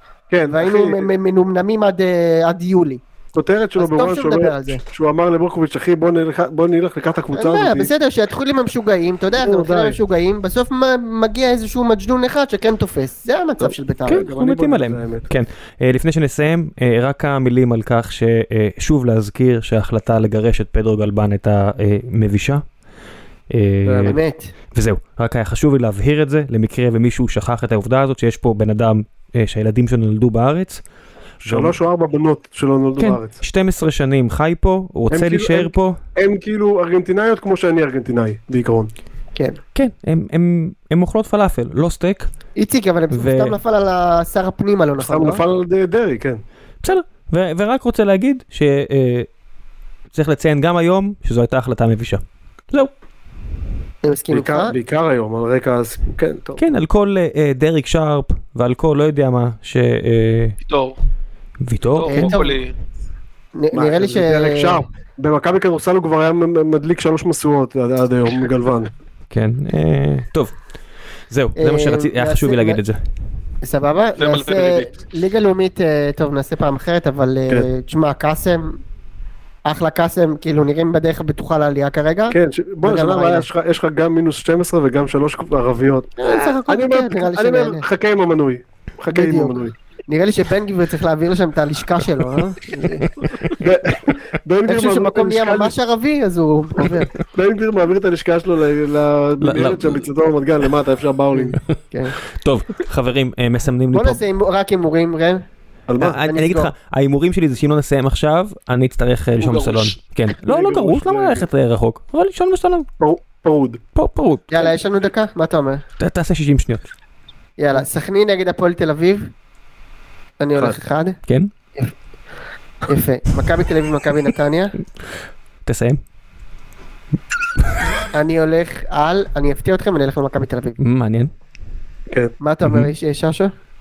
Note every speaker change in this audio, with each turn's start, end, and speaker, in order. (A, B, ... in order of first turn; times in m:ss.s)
0:00.3-0:01.1 A
0:00.5-0:03.0 B
0:03.3-0:07.9 A
0:03.8-0:04.8 B
0:07.3-0:14.2 B
0:09.4-0:10.0 A
0:13.6-0:15.3 A
0:14.1-0:22.6 C
0:23.5-0:24.2 C
0:23.8-0:24.5 B
0:24.7-0:30.8 C
0:31.4-0:33.4 A
0:33.0-0:36.0 C
0:35.1-0:38.9 A
0:39.3-0:39.6 B
0:39.7-0:42.3 C
0:42.6-0:45.4 B
0:43.1-0:43.6 C
0:45.0-0:46.4 A
0:46.8-0:49.3 C
0:50.1-0:52.9 C
0:54.0-0:54.7 B
0:54.3-0:56.6 A
0:56.6-1:00.6 C
1:00.6-1:01.0 D
1:01.6-1:02.3 C
1:01.9-1:02.7 D
1:02.1-1:02.6 B
1:03.5-1:04.8 B
1:03.7-1:08.9 A
1:09.3-1:10.5 C
1:11.3-1:13.0 C
1:11.6-1:12.8 B
1:13.6-1:18.8 B
1:14.2-1:14.9 D
1:19.6-1:23.5 B
1:22.3-1:29.7 A
1:26.2-1:27.8 B
1:29.1-1:33.5 B
1:32.9-1:33.5 C
1:33.5-1:35.7 A
1:34.7-1:37.2 B
1:37.2-1:41.6 A
1:39.4-1:40.0 C
1:41.3-1:42.2 B
1:42.2-1:44.2 C
1:43.9-1:45.4 B
1:45.9-1:46.2 A
1:46.0-1:52.9 C
1:46.2-1:46.7 B
1:49.4-1:50.0 D
1:50.4-1:51.4 A
1:53.0-1:53.8 A
1:53.9-1:54.7 C
1:54.5-1:55.8 B
1:56.0-1:56.9 C
1:57.6-1:59.3 B
2:00.4-2:01.2 B
2:01.3-2:01.5 C
2:02.8-2:04.8 B
2:05.6-2:06.0 C
2:08.1-2:10.8 B
2:10.8-2:11.3 C
2:12.4-2:13.5 B